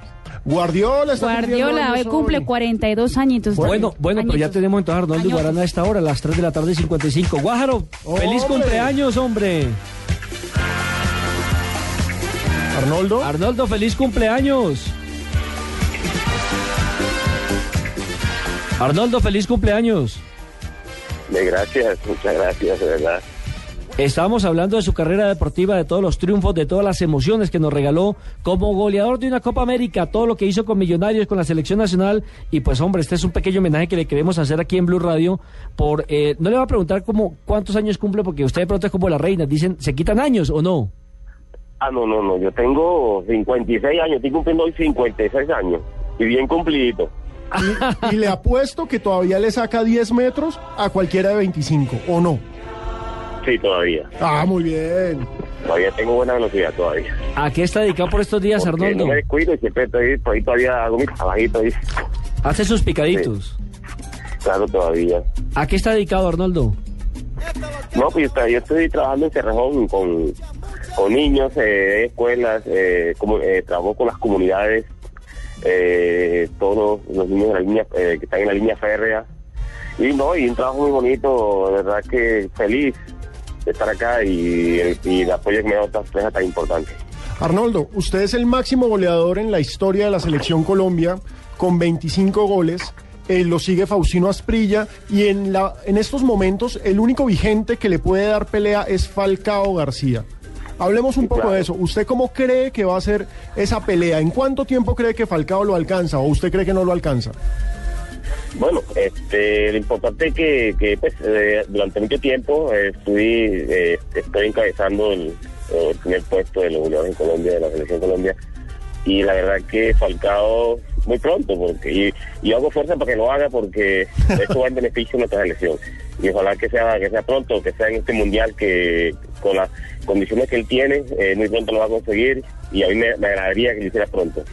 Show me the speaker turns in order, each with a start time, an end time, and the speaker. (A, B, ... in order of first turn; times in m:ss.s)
0:00.4-0:02.4 A
0:01.2-0:04.5 B
0:03.6-0:09.8 C
0:05.2-0:05.4 B
0:08.0-0:09.0 A
0:12.7-0:13.3 A
0:13.2-0:14.9 C
0:18.8-0:20.2 C
0:21.3-0:23.2 D
0:24.0-0:40.9 C
0:41.8-0:47.1 D
0:47.5-0:48.3 C
0:47.6-0:52.4 A
0:53.4-0:54.1 D
0:54.2-0:55.3 A
0:55.6-0:57.1 D
0:57.4-0:59.2 C
0:58.6-1:01.8 D
1:02.4-1:03.6 C
1:04.4-1:05.2 D
1:05.6-1:06.8 C
1:07.9-1:10.3 D
1:11.0-1:14.9 D
1:15.6-1:19.2 D
1:20.0-1:23.0 D
1:23.6-1:27.0 D
1:27.4-1:40.2 A
1:40.8-1:47.3 A
1:41.2-1:41.6 D
1:48.6-1:58.3 D
1:59.0-2:14.4 D